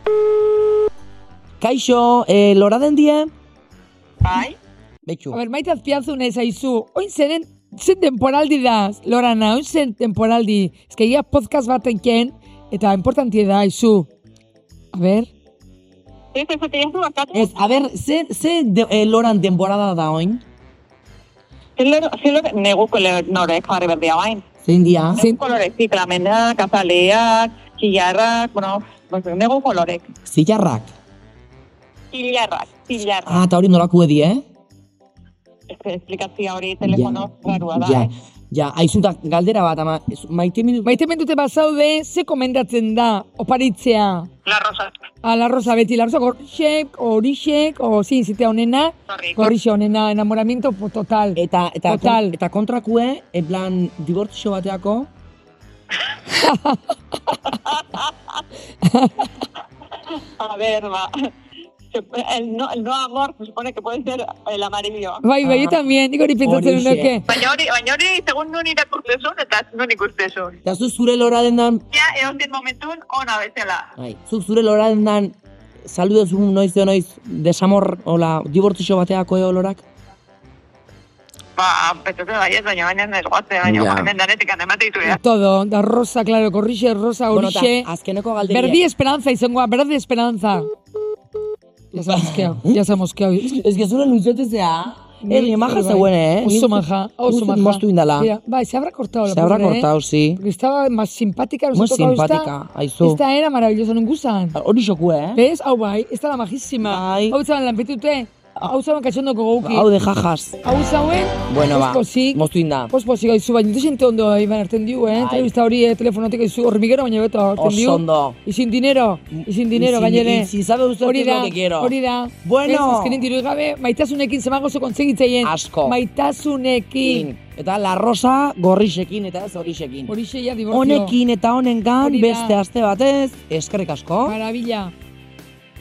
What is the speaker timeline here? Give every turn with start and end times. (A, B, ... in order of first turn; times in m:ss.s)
0:01.6-0:03.3 A
0:04.2-0:04.6 B
0:05.0-0:05.4 A
0:05.3-0:14.1 C
0:14.9-0:15.3 C
0:16.3-0:17.5 B
0:17.3-0:20.4 A
0:21.8-0:24.4 B
0:24.6-0:25.2 A
0:25.2-0:30.1 B
0:30.2-0:30.9 A
0:32.1-0:33.4 B
0:33.3-0:34.4 A
0:35.7-0:38.1 B
0:36.8-0:41.0 A
0:40.8-0:44.3 C
0:44.4-0:44.9 B
0:45.2-0:52.4 C
0:49.1-0:49.5 B
0:51.4-0:55.1 A
0:56.3-0:57.4 C
0:57.5-0:58.4 B
0:58.8-0:59.3 C
1:00.1-1:01.1 B
1:01.9-1:05.2 B
1:05.2-1:07.2 C
1:05.4-1:05.8 A
1:06.4-1:07.2 A
1:07.3-1:10.6 B
1:10.6-1:11.8 A
1:11.9-1:13.9 B
1:14.0-1:19.8 A
1:21.6-1:25.2 B
1:23.6-1:24.1 A
1:25.0-1:27.9 C
1:27.3-1:28.8 A
1:28.5-1:30.7 C
1:31.9-1:33.6 C
1:32.0-1:32.8 A
1:33.4-1:38.3 A
1:35.2-1:42.5 C
1:39.3-1:40.4 A
1:41.7-1:43.2 A
1:43.0-1:44.6 C
1:44.6-1:45.4 A
1:45.4-1:49.9 C
1:46.8-1:47.4 A
1:49.6-1:50.6 A
1:50.6-2:07.3 C
1:51.5-1:52.9 A
1:55.1-1:55.5 A
1:57.6-1:58.4 A
1:59.3-2:03.2 A
2:05.4-2:06.0 A
2:07.0-2:10.1 A
2:10.1-2:11.2 C
2:10.7-2:14.4 A
2:12.0-2:12.6 C
2:14.2-2:14.9 C